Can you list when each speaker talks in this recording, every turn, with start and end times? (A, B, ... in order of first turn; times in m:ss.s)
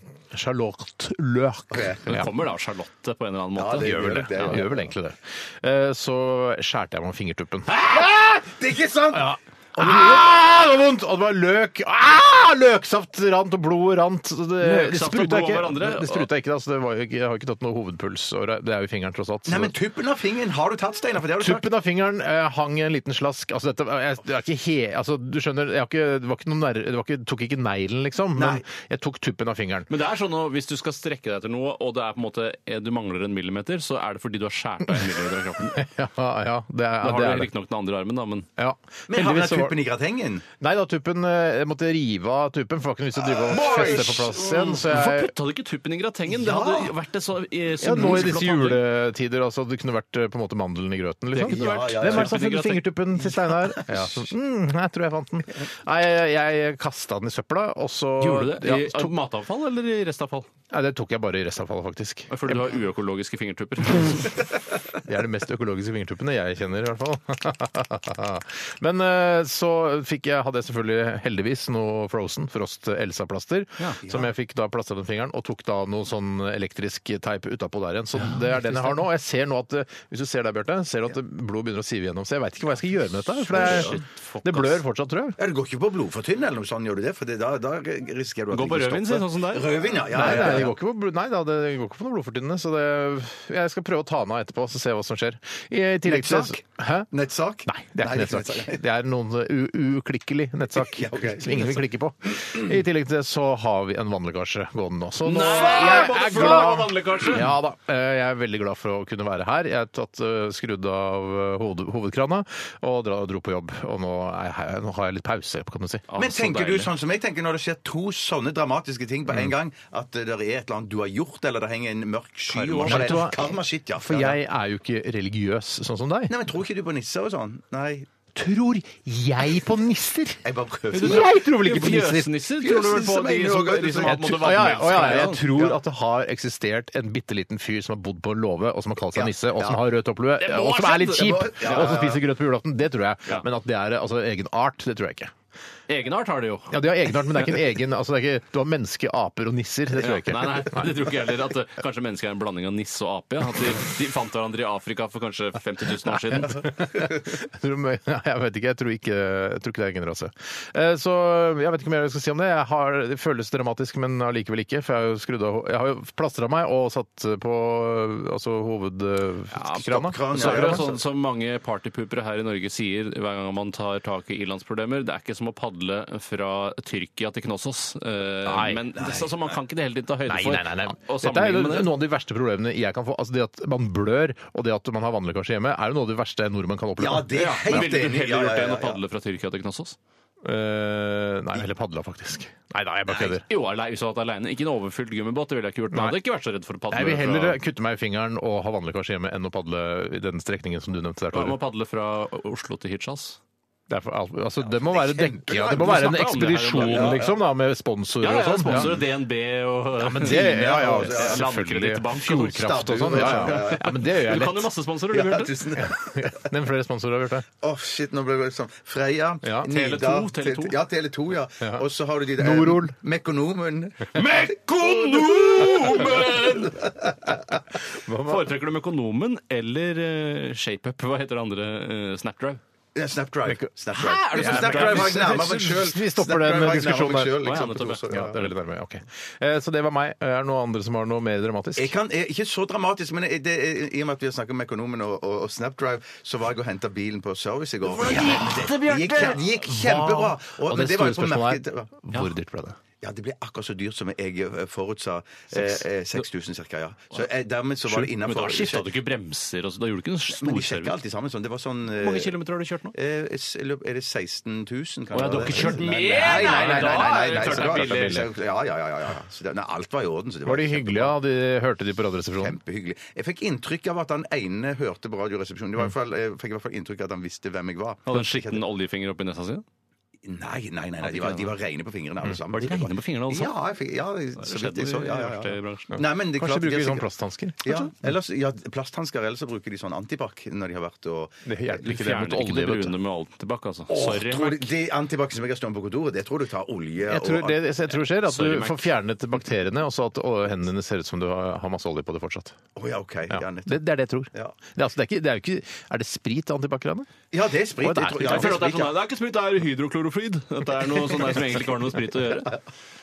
0:00.3-0:02.3 A
0:01.7-0:02.0 B
0:02.0-0:04.6 C
0:03.6-0:04.9 B
0:03.8-0:08.1 A
0:07.7-0:10.3 B
0:09.1-0:19.7 A
0:14.6-0:16.3 C
0:19.5-0:21.7 B
0:21.4-0:29.9 A
0:28.4-0:28.6 B
0:29.9-0:35.9 C
0:35.7-0:37.5 A
0:37.0-0:38.5 C
0:38.6-0:39.8 A
0:39.1-0:40.5 B
0:40.6-0:45.3 A
0:43.2-0:44.4 B
0:43.6-0:48.8 C
0:46.3-0:46.9 B
0:47.8-0:59.1 A
0:51.3-0:52.9 C
0:51.4-0:52.4 B
0:53.5-0:54.1 B
0:58.2-1:00.5 C
1:00.7-1:02.7 A
1:02.3-1:04.4 C
1:05.0-1:25.4 A
1:14.0-1:14.3 B
1:18.2-1:19.0 C
1:23.5-1:24.8 C
1:23.6-1:23.9 B
1:25.4-1:30.7 B
1:28.5-1:29.7 C
1:30.1-1:37.1 A
1:36.0-1:38.8 B
1:37.6-1:56.1 A
1:40.8-1:41.8 B
1:45.2-1:47.5 C
1:45.7-1:46.0 B
1:56.1-1:56.9 C
1:56.2-2:04.4 B
2:02.5-2:03.3 C
2:02.8-2:06.3 A
2:06.3-2:08.1 B
2:08.4-2:12.3 A
2:10.4-2:11.3 B
2:10.9-2:15.4 C
2:12.6-2:15.8 B
2:14.0-2:25.3 A
2:19.1-2:19.8 B
2:20.4-2:22.0 C
2:21.1-2:22.2 B
2:25.9-2:26.8 C
2:26.7-2:31.0 A
2:30.0-2:36.6 C
2:36.4-2:50.8 A
2:49.7-2:51.0 B
2:50.3-3:01.9 C
2:58.4-2:58.8 A
2:59.0-2:59.4 B
3:00.3-3:07.9 A
3:07.0-3:09.0 B
3:07.3-3:10.0 C
3:10.4-3:13.4 A
3:13.1-3:17.6 C
3:16.9-3:21.6 A
3:21.3-3:23.4 C
3:23.9-3:29.0 A
3:24.6-3:26.2 B
3:25.8-3:27.3 C
3:26.8-3:27.3 B
3:28.2-3:35.6 C
3:28.7-3:29.0 B
3:30.0-3:34.7 A
3:30.2-3:31.4 B
3:32.5-3:34.0 B
3:35.1-3:36.4 B
3:35.8-3:37.5 A
3:37.6-3:47.2 B
3:39.7-3:40.8 C
3:42.4-3:43.0 A
3:44.2-3:46.8 C
3:48.0-3:48.5 A
3:48.2-3:52.6 C
3:53.0-3:58.4 B
3:53.5-3:57.6 A
3:54.0-3:55.4 C
3:57.4-3:58.0 C
3:58.1-4:01.9 A
4:01.8-4:11.9 B
4:07.9-4:09.4 C
4:08.0-4:08.8 A
4:09.6-4:12.8 A
4:13.0-4:18.9 B
4:17.9-4:21.0 C
4:20.4-4:22.4 B
4:21.9-4:22.9 C
4:22.9-4:31.2 B
4:25.1-4:28.2 C
4:25.4-4:28.3 A
4:30.4-4:32.6 A
4:32.4-4:38.6 B
4:38.1-4:39.6 C
4:40.2-4:47.1 B
4:41.0-4:41.5 C
4:42.5-4:43.6 C
4:44.4-4:46.0 C
4:46.0-4:47.9 A
4:47.6-4:51.4 B
4:51.4-4:53.0 A
4:51.8-4:54.7 C
4:53.9-4:57.6 B
4:57.1-5:02.6 A
4:58.2-4:58.9 C
5:02.8-5:04.6 B
5:03.3-5:07.1 A
5:07.3-5:09.0 B
5:07.8-5:08.6 A
5:08.2-5:12.6 C